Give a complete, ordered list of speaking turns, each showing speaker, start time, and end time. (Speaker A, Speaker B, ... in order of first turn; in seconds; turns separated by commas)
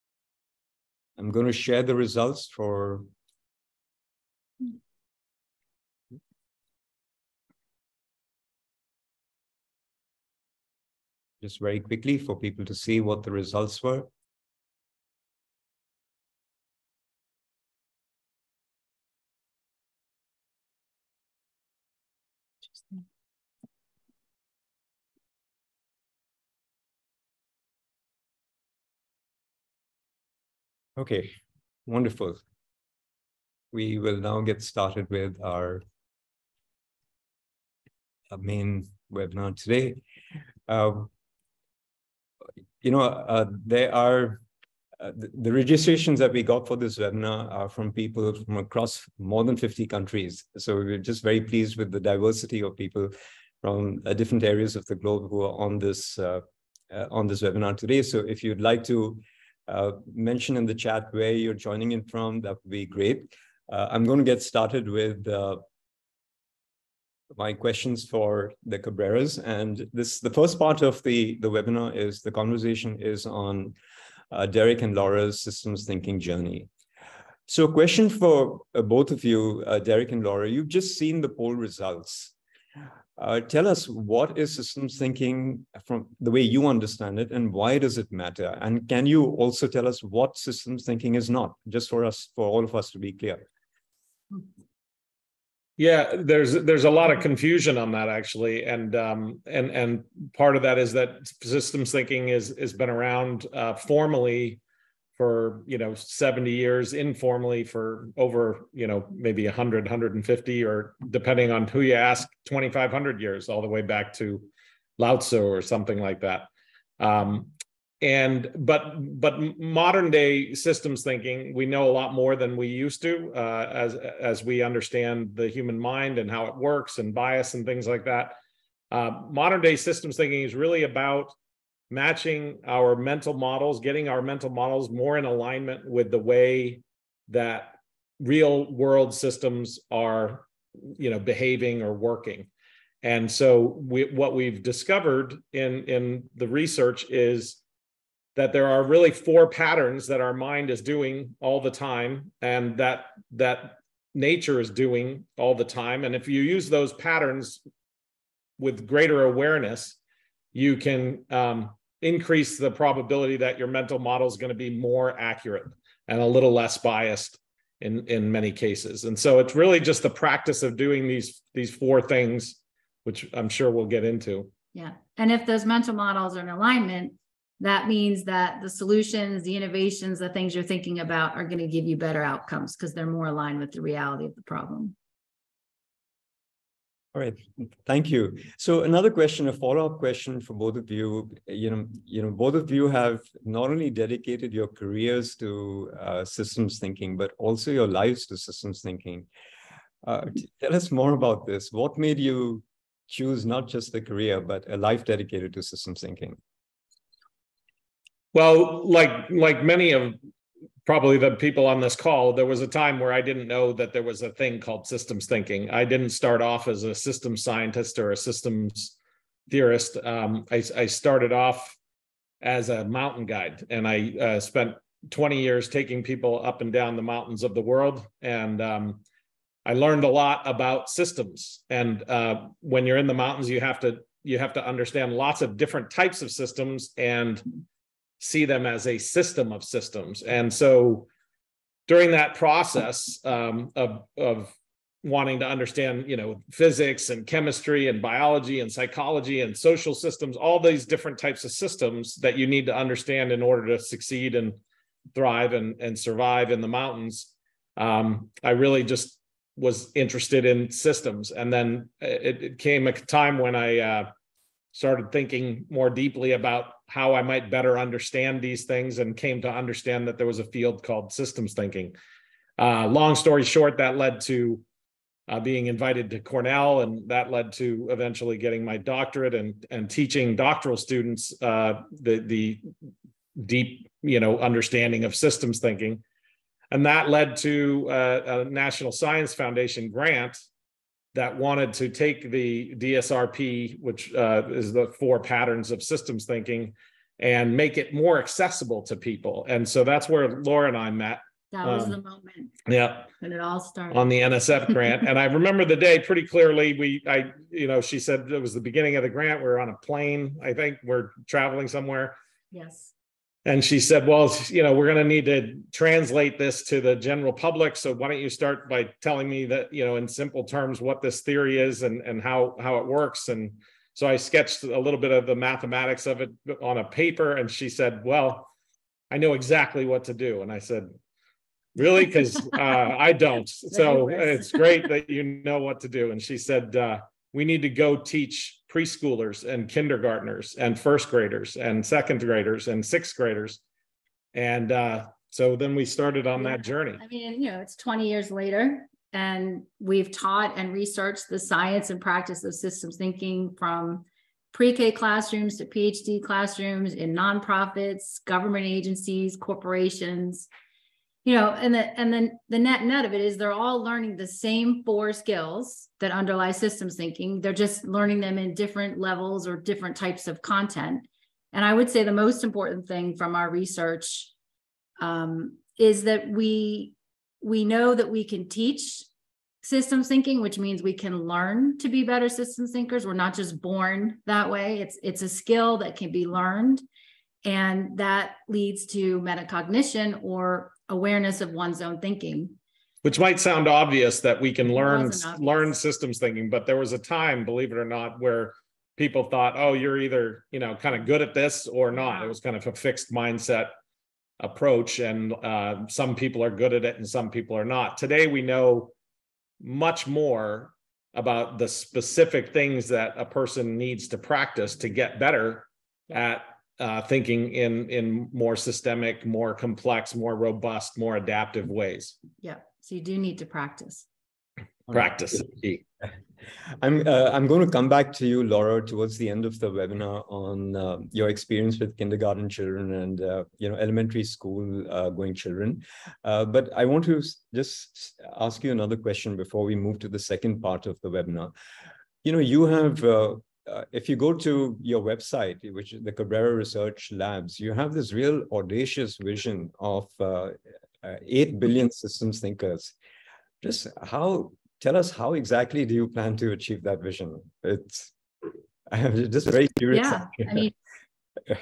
Speaker A: 1.2-3.1, Speaker A: 11.4-14.1, Speaker A: 31.0-31.4, Speaker A: 31.9-32.4, Speaker A: 33.7-35.8, Speaker A: 38.3-40.0, Speaker A: 40.7-41.1, Speaker A: 42.8-44.4, Speaker A: 45.0-65.6, Speaker A: 67.3-73.8, Speaker A: 74.3-76.7, Speaker A: 77.5-82.3, Speaker A: 83.2-93.5, Speaker B: 95.8-104.6, Speaker B: 105.2-116.5, Speaker B: 117.0-128.4, Speaker B: 128.9-131.3, Speaker B: 131.9-142.5, Speaker B: 143.0-147.6, Speaker B: 148.4-157.6, Speaker B: 158.6-160.0, Speaker B: 160.5-174.5, Speaker C: 174.7-184.9, Speaker A: 187.1-199.3, Speaker A: 200.0-206.4, Speaker B: 208.3-210.2, Speaker B: 210.9-218.9, Speaker B: 219.5-221.8, Speaker B: 222.4-229.0, Speaker B: 229.7-237.4, Speaker B: 238.2-241.1, Speaker B: 241.9-254.6, Speaker B: 255.1-264.1, Speaker B: 264.7-272.0, Speaker B: 272.6-274.6, Speaker B: 275.3-282.7, Speaker B: 283.4-286.0, Speaker B: 286.7-290.4, Speaker B: 291.1-302.0, Speaker C: 301.5-302.6, Speaker B: 302.7-303.1, Speaker C: 303.2-305.0, Speaker B: 303.9-312.2, Speaker C: 312.5-312.9, Speaker B: 313.4-328.5, Speaker B: 329.1-330.9, Speaker B: 331.8-343.6, Speaker C: 333.7-334.9, Speaker B: 344.3-347.0, Speaker C: 346.4-360.5, Speaker C: 361.2-374.3, Speaker C: 375.0-379.1, Speaker C: 379.6-386.8, Speaker C: 387.4-392.6, Speaker B: 393.0-403.7, Speaker C: 394.6-395.7, Speaker C: 401.9-402.4, Speaker B: 404.4-408.9, Speaker B: 409.6-422.2, Speaker C: 422.4-424.1, Speaker B: 424.9-425.8, Speaker A: 426.8-441.5, Speaker A: 442.2-452.9, Speaker A: 453.6-458.1, Speaker A: 458.9-460.7, Speaker C: 459.9-460.7